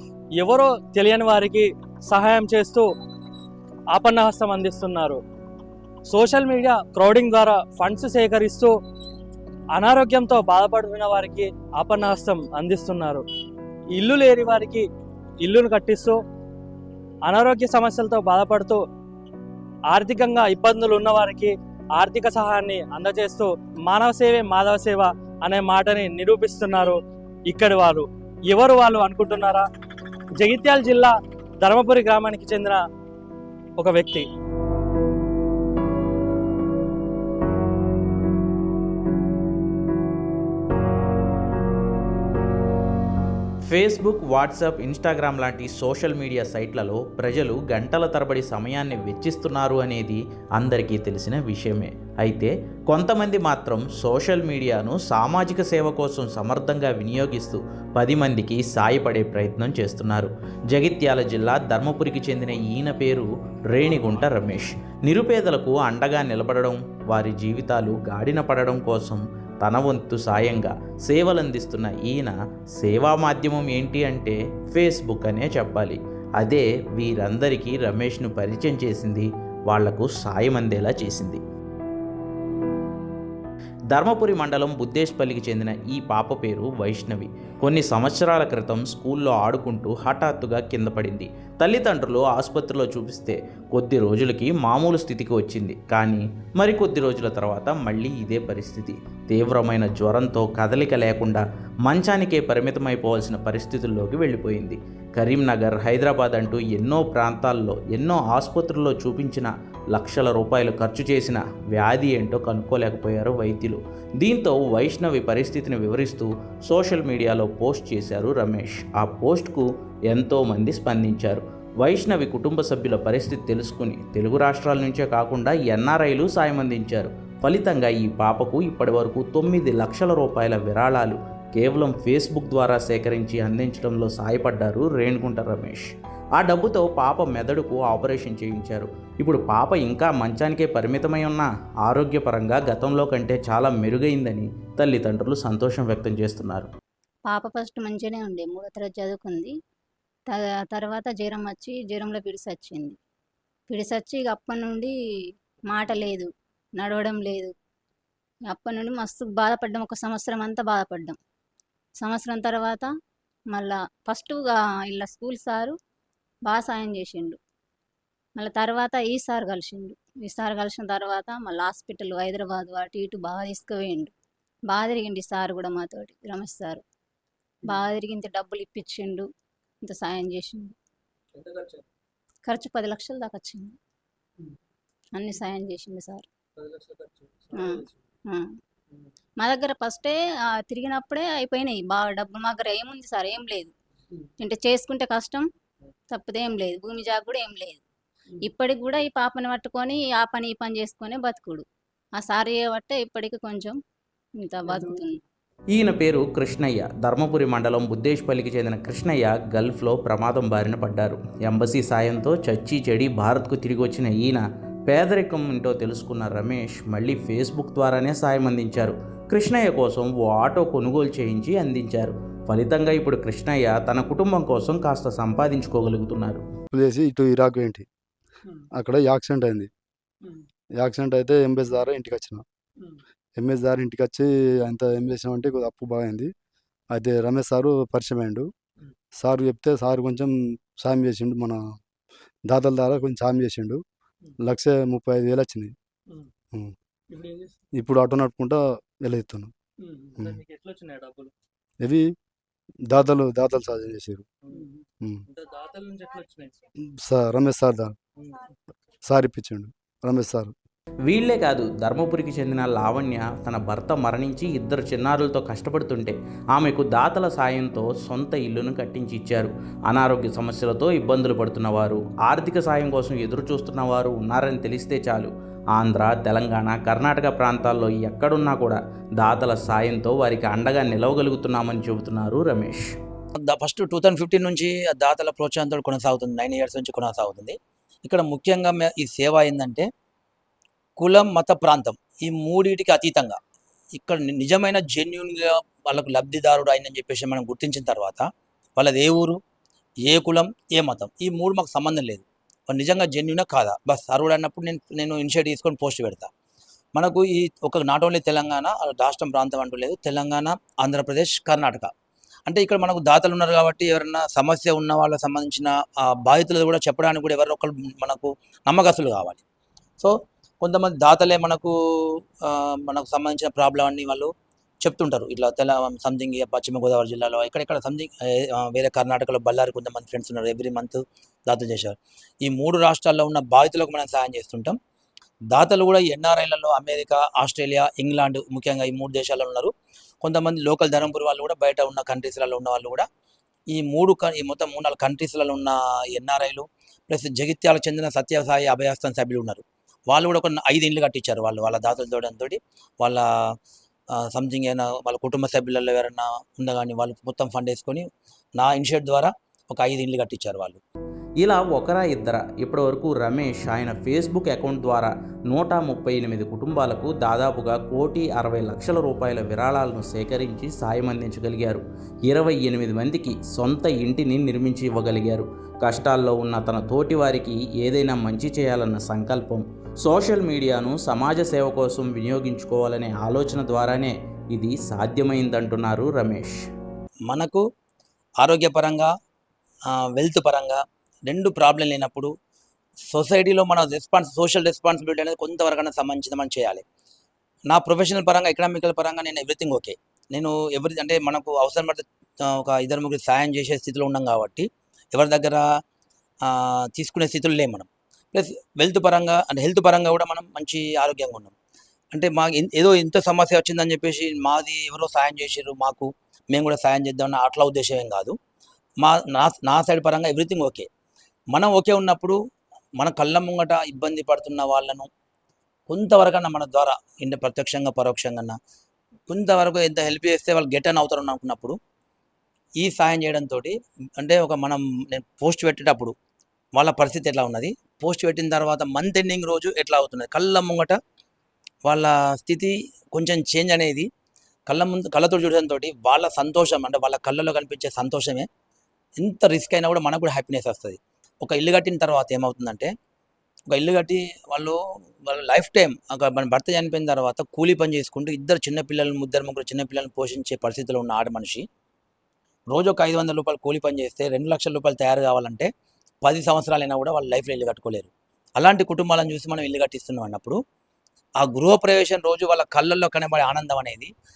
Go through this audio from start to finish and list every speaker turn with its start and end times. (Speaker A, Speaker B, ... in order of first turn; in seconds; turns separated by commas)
Speaker A: 0.4-2.9, Speaker A: 3.9-5.2, Speaker A: 6.1-8.7, Speaker A: 9.7-13.2, Speaker A: 13.9-14.9, Speaker A: 15.4-16.2, Speaker A: 17.2-18.8, Speaker A: 19.9-29.7, Speaker A: 30.4-32.8, Speaker A: 33.8-34.2, Speaker B: 43.7-81.4, Speaker B: 83.9-135.8, Speaker B: 136.3-146.7, Speaker C: 147.3-149.5, Speaker C: 150.3-153.0, Speaker C: 153.7-154.9, Speaker C: 155.7-156.3, Speaker C: 156.8-157.5, Speaker C: 158.5-161.2, Speaker C: 162.0-162.9, Speaker C: 163.5-165.8, Speaker C: 166.5-167.4, Speaker C: 168.4-174.1, Speaker C: 174.7-176.8, Speaker C: 177.6-179.3, Speaker C: 179.8-180.7, Speaker A: 181.3-181.8, Speaker C: 182.5-183.7, Speaker C: 185.1-186.2, Speaker A: 186.6-187.8, Speaker C: 187.5-188.5, Speaker C: 189.4-193.7, Speaker C: 194.4-195.4, Speaker C: 196.1-197.8, Speaker C: 198.4-201.6, Speaker C: 202.2-203.8, Speaker C: 204.4-205.2, Speaker B: 205.7-226.4, Speaker D: 226.7-227.8, Speaker D: 228.8-229.7, Speaker D: 230.8-232.4, Speaker D: 233.4-236.3, Speaker D: 236.9-238.5, Speaker D: 239.2-241.6, Speaker D: 242.5-243.8, Speaker D: 244.4-245.7, Speaker A: 247.1-247.5, Speaker D: 247.8-249.5, Speaker A: 249.8-251.3, Speaker D: 251.8-252.1, Speaker D: 252.9-254.2, Speaker A: 254.5-256.6, Speaker D: 257.1-257.9, Speaker A: 258.2-258.5, Speaker D: 259.1-260.5, Speaker B: 261.0-282.8, Speaker E: 283.4-289.9, Speaker E: 291.0-293.4, Speaker E: 293.9-299.4, Speaker E: 300.1-306.3, Speaker E: 306.9-311.9, Speaker E: 312.5-319.4, Speaker E: 320.0-321.7, Speaker E: 322.4-324.3, Speaker E: 324.8-334.8, Speaker E: 335.5-339.7, Speaker E: 340.2-343.1, Speaker E: 343.7-353.2, Speaker E: 354.3-358.1, Speaker E: 358.6-360.8, Speaker B: 361.4-386.5, Speaker E: 387.3-387.6, Speaker E: 388.4-389.1, Speaker E: 390.1-392.3, Speaker E: 393.1-396.8, Speaker E: 397.7-405.6, Speaker E: 406.4-411.5, Speaker E: 412.1-418.4, Speaker E: 419.0-420.9, Speaker E: 421.5-422.4, Speaker E: 423.0-425.1, Speaker E: 425.9-428.6, Speaker E: 429.3-431.8, Speaker E: 432.8-436.1, Speaker E: 436.8-440.9, Speaker E: 441.9-444.1, Speaker E: 444.7-448.5, Speaker E: 449.2-452.9, Speaker E: 453.7-461.6, Speaker E: 462.7-465.7, Speaker E: 466.2-470.6, Speaker E: 471.4-474.1